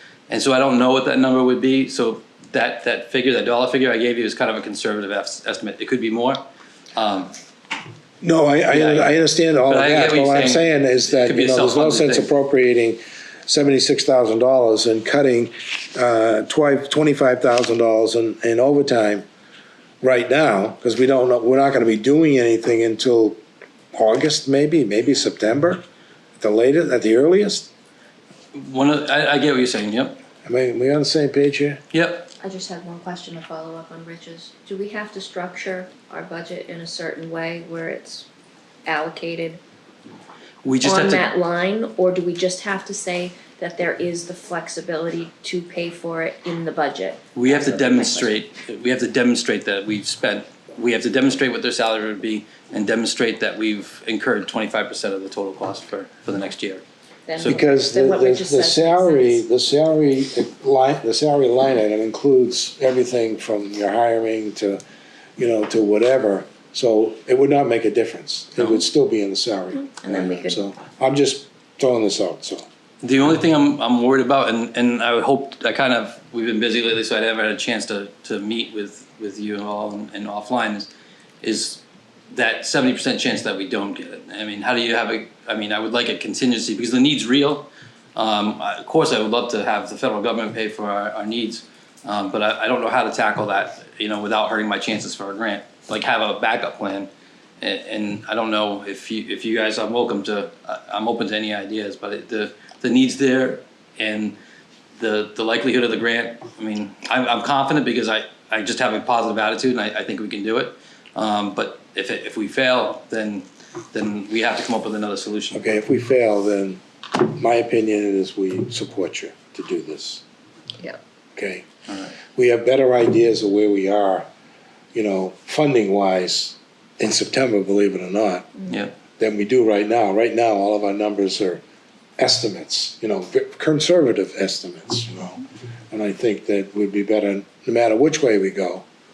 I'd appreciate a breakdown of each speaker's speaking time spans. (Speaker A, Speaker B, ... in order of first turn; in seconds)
Speaker A: 0.3-6.4, 6.9-7.3, 8.7-12.3, 28.5-30.2, 31.9-32.3, 40.6-41.3, 47.3-56.8, 57.4-57.6, 73.0-80.9, 81.4-97.1, 97.6-104.3, 105.0-115.6, 121.9-122.1, 128.7-129.0
Speaker B: 8.2-19.2, 20.0-23.4, 23.9-25.8, 26.4-27.7, 30.4-31.8, 57.5-64.8, 65.4-72.6, 115.5-120.2, 121.3-121.7, 122.3-124.3, 124.9-128.5, 129.2-131.6, 132.2-138.8
Speaker C: 32.4-38.2, 38.9-39.6, 40.8-48.3, 57.3-59.4, 69.7-70.6